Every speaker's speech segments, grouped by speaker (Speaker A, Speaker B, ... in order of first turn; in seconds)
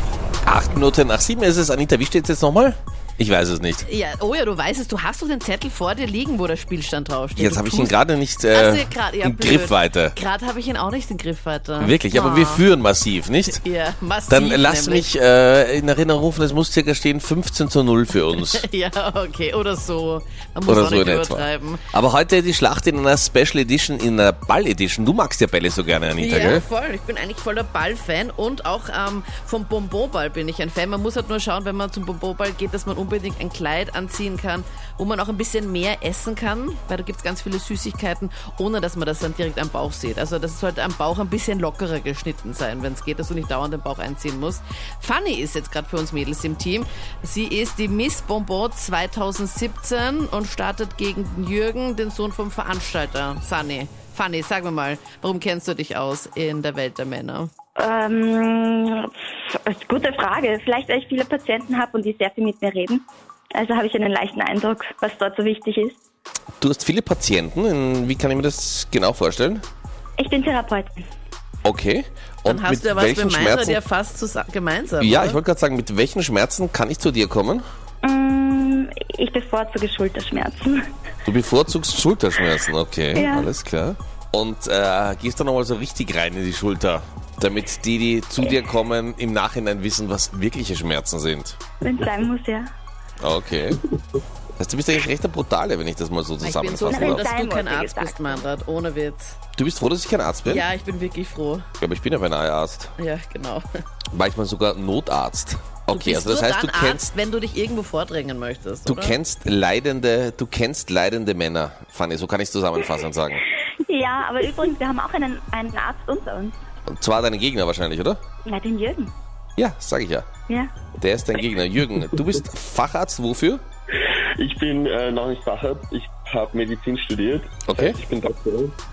Speaker A: 0.4-3.9, 7.4-10.2, 11.8-13.6, 14.3-18.6, 20.6-26.6, 66.6-69.6, 71.6-73.8, 75.0-77.6, 81.3-91.7, 93.2-93.8, 94.6-97.3, 99.5-100.7, 101.8-102.9, 104.1-107.1, 108.9-113.4, 116.9-118.2, 119.5-120.3, 121.0-123.6, 127.7-128.0
Speaker B: 3.8-8.0, 8.5-12.7, 13.4-15.1, 18.5-21.8, 26.2-57.5, 72.4-75.4, 96.4-99.4, 100.5-101.7, 103.0-103.6, 105.9-109.2
Speaker C: 57.8-66.0, 70.2-71.0, 78.0-80.8, 83.1-83.5, 91.8-92.7, 96.9-98.4, 113.8-116.6, 118.4-119.1, 120.5-120.7
Speaker D: 124.1-128.8